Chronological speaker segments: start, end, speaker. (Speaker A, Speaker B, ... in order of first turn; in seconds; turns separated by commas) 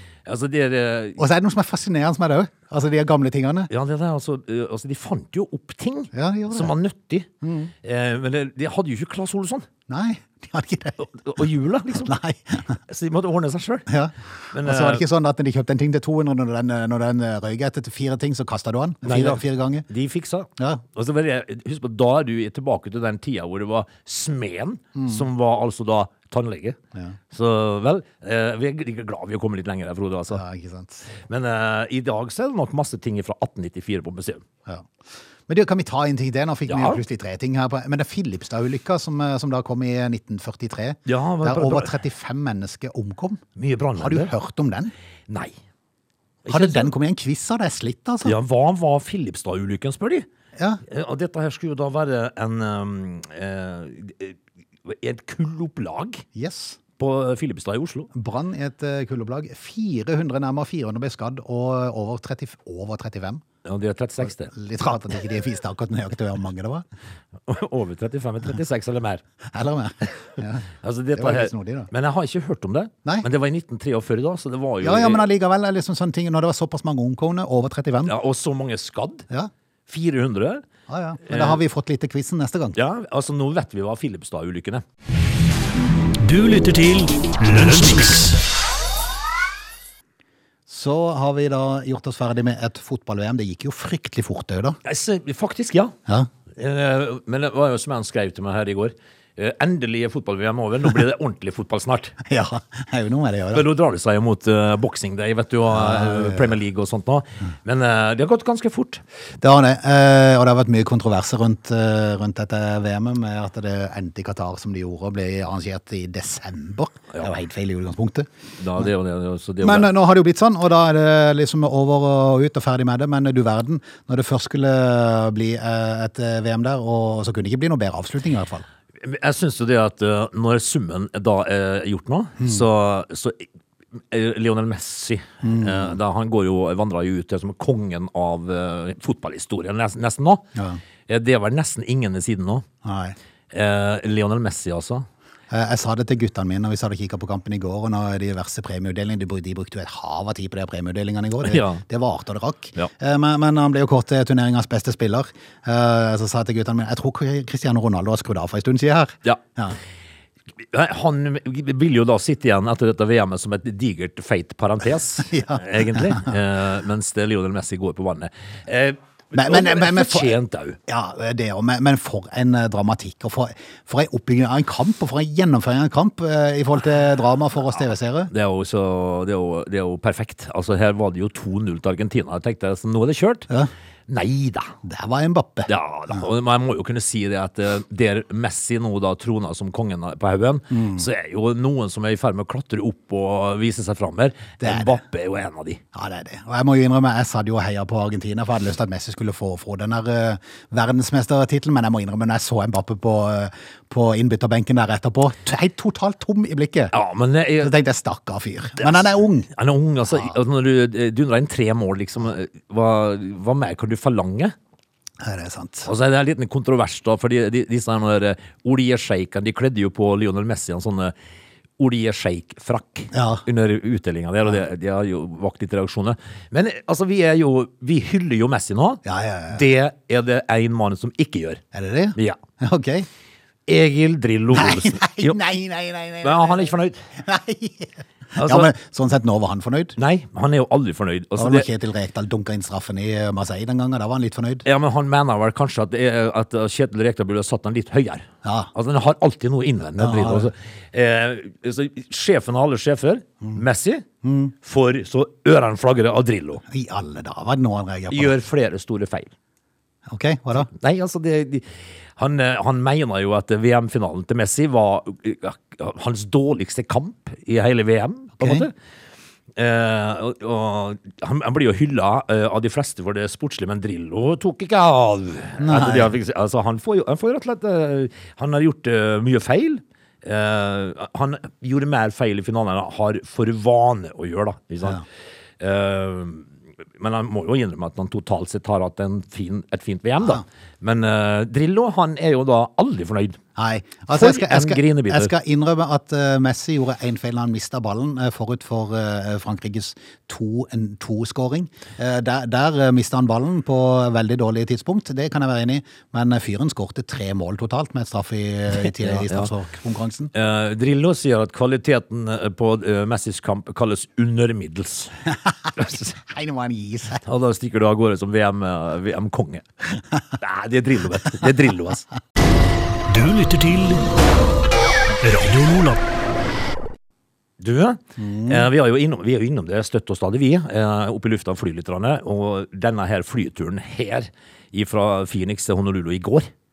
Speaker A: 0.2-1.2, Speaker B: 1.2-3.7, Speaker A: 3.7-7.3, Speaker B: 6.1-6.7, Speaker B: 7.4-7.7, Speaker A: 7.8-9.7, Speaker B: 9.9-11.1, Speaker A: 11.0-12.1, Speaker B: 12.0-12.8, Speaker A: 12.9-13.9, Speaker B: 13.9-19.9, Speaker A: 14.5-15.0, Speaker A: 19.0-26.8, Speaker B: 20.6-20.8, Speaker B: 24.9-25.2, Speaker A: 27.3-30.4, Speaker B: 30.3-31.1, Speaker A: 31.2-34.4, Speaker B: 35.5-43.4, Speaker A: 36.7-37.0, Speaker A: 41.0-41.9, Speaker A: 43.5-44.3, Speaker B: 44.0-44.9, Speaker A: 45.3-45.5, Speaker A: 46.4-46.9, Speaker B: 46.5-48.4, Speaker A: 48.2-50.3, Speaker B: 50.5-50.8, Speaker A: 50.9-56.2, Speaker B: 56.3-56.8, Speaker A: 57.0-58.1, Speaker B: 58.1-63.4, Speaker A: 63.6-65.0, Speaker B: 64.3-66.8, Speaker A: 67.5-69.2, Speaker B: 69.5-71.9, Speaker A: 70.8-75.2, Speaker B: 74.8-78.1, Speaker A: 78.0-79.3, Speaker A: 79.9-80.7, Speaker B: 80.9-82.8, Speaker A: 81.2-81.6, Speaker A: 82.7-84.8, Speaker C: 86.2-88.4, Speaker B: 90.7-94.8, Speaker A: 94.8-96.0, Speaker A: 96.5-102.2, Speaker B: 102.2-103.7, Speaker A: 103.5-109.0, Speaker B: 105.7-106.5, Speaker B: 109.4-118.9, Speaker A: 118.6-119.9, Speaker B: 119.6-128.7, Speaker A: 129.0-133.4, Speaker B: 132.4-132.6, Speaker A: 134.1-140.5, Speaker B: 135.4-136.0, Speaker B: 140.5-140.8, Speaker A: 141.1-142.7, Speaker B: 142.8-143.2, Speaker A: 143.5-145.1, Speaker B: 145.5-159.8, Speaker A: 151.4-151.8, Speaker A: 160.6-170.8, Speaker B: 165.3-166.3, Speaker B: 169.3-170.3, Speaker B: 170.9-178.3, Speaker A: 178.3-183.5, Speaker A: 184.1-184.7, Speaker B: 184.8-185.7, Speaker A: 185.7-195.8, Speaker B: 190.7-191.1, Speaker B: 194.6-195.0, Speaker B: 195.9-206.9, Speaker A: 206.9-207.7, Speaker B: 207.6-209.5, Speaker A: 208.8-214.5, Speaker B: 215.2-215.9, Speaker A: 215.8-221.1, Speaker A: 221.8-231.6, Speaker B: 223.1-223.4, Speaker B: 229.0-229.6, Speaker B: 231.7-233.1, Speaker A: 233.7-235.4, Speaker B: 234.5-239.9, Speaker A: 236.2-237.0, Speaker A: 238.3-238.7, Speaker A: 239.9-241.7, Speaker B: 241.3-244.7, Speaker A: 244.6-254.1, Speaker B: 248.4-248.7, Speaker B: 250.0-250.5, Speaker B: 254.2-254.5, Speaker A: 254.6-256.6, Speaker B: 256.6-258.4, Speaker A: 258.1-259.3, Speaker B: 260.1-260.7, Speaker A: 260.5-268.7, Speaker B: 268.4-268.7, Speaker A: 269.5-285.0, Speaker B: 275.6-276.2, Speaker A: 285.6-293.4, Speaker B: 293.6-310.3, Speaker A: 294.1-295.3, Speaker A: 308.7-309.5, Speaker A: 310.3-315.1, Speaker B: 315.4-317.2, Speaker A: 315.8-316.1, Speaker A: 317.2-319.6, Speaker A: 320.4-322.1, Speaker C: 323.1-324.1, Speaker C: 325.2-326.0, Speaker A: 327.6-336.5, Speaker B: 328.2-328.7